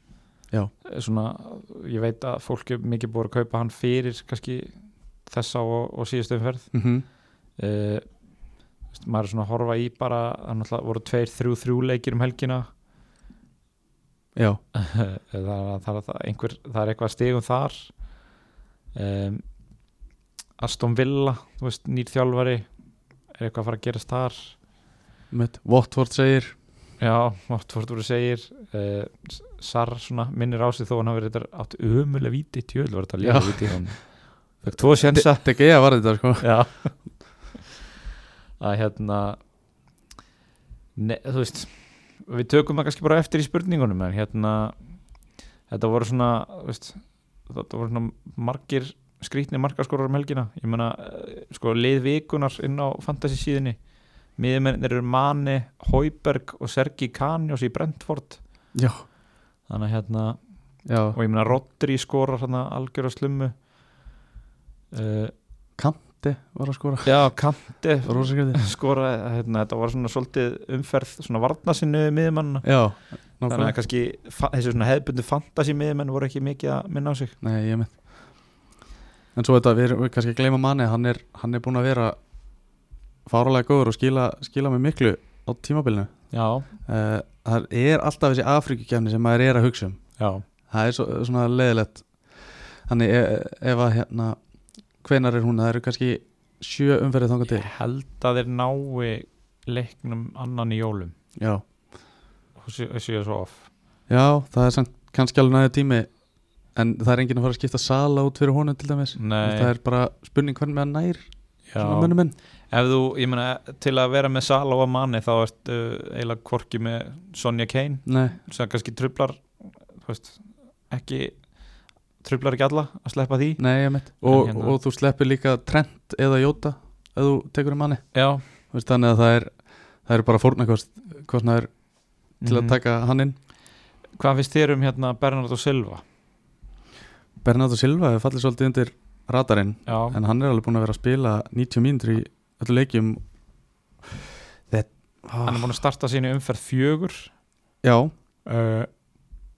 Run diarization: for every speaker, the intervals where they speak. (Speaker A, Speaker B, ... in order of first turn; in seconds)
Speaker A: 0.8-6.7, 7.6-8.0, 8.9-12.7, 14.7-17.9, 18.9-19.4, 20.6-22.7, 23.3-24.6, 27.0-35.5, 36.4-37.0, 38.6-39.4, 41.0-44.8, 45.7-53.8, 54.4-58.4, 59.7-60.4, 61.1-63.6, 64.9-65.3, 67.0-77.3, 86.3-86.7, 90.2-90.4, 97.5-101.1, 102.6-103.7, 109.2-109.7, 111.7-112.2, 112.7-124.8, 128.1-128.4, 132.4-132.8, 134.2-136.0, 139.8-140.2, 145.4-147.3, 148.4-148.9
Speaker B: 6.7-7.0, 25.3-26.6, 33.2-34.0, 34.7-36.5, 58.7-59.0, 60.9-61.2, 65.8-67.5, 68.0-68.6, 72.6-73.7, 77.4-78.0, 79.3-82.2, 83.2-86.3, 86.8-90.0, 90.7-92.1, 92.8-94.4, 95.0-97.7, 101.4-101.6, 104.1-106.1, 106.7-112.3, 118.0-118.3, 123.6-133.3, 137.4-143.2, 144.7-145.8, 147.8-148.1